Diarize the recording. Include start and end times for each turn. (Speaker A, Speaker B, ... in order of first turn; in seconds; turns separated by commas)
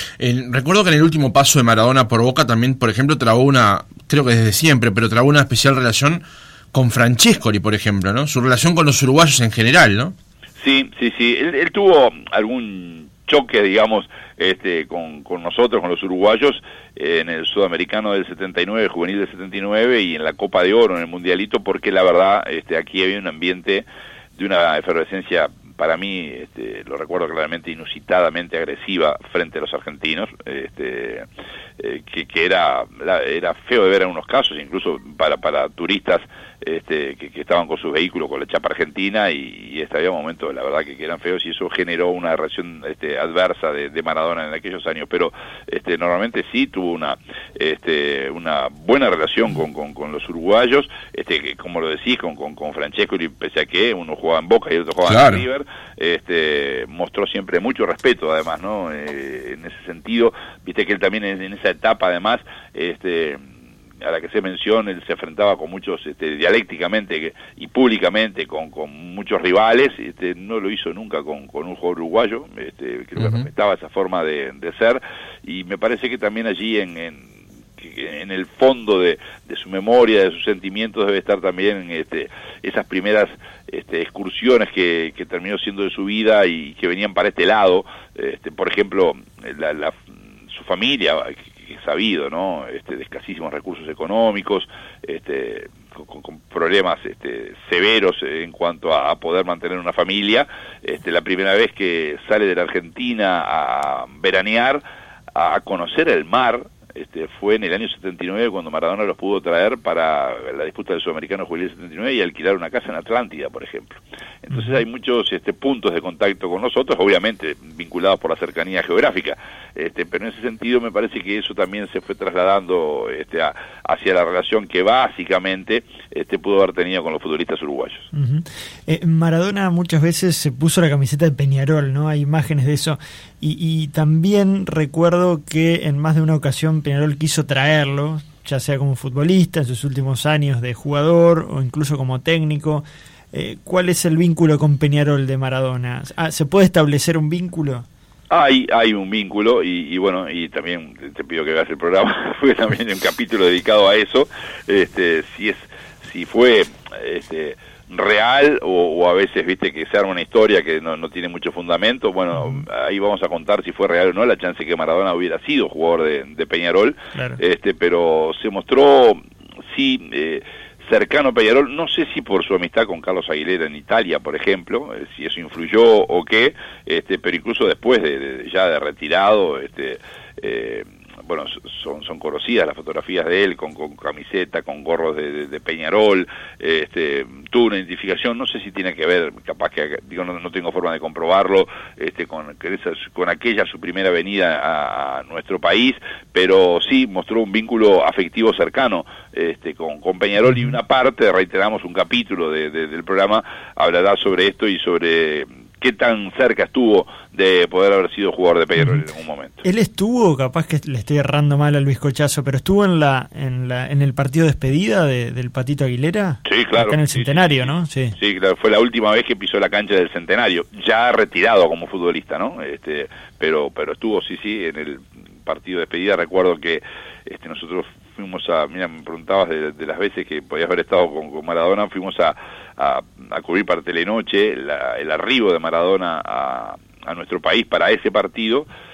Speaker A: 0.2-10.1, Speaker B: 10.6-31.3, Speaker B: 31.8-63.5, Speaker A: 55.0-55.4, Speaker B: 64.0-90.0, Speaker A: 73.2-73.5, Speaker B: 90.5-104.8, Speaker B: 105.3-128.1, Speaker C: 114.5-114.8, Speaker C: 128.1-147.8, Speaker B: 148.3-209.6, Speaker C: 162.3-162.6, Speaker C: 167.1-167.4, Speaker C: 200.4-200.8, Speaker C: 208.8-209.0, Speaker C: 209.6-218.2, Speaker B: 216.4-238.7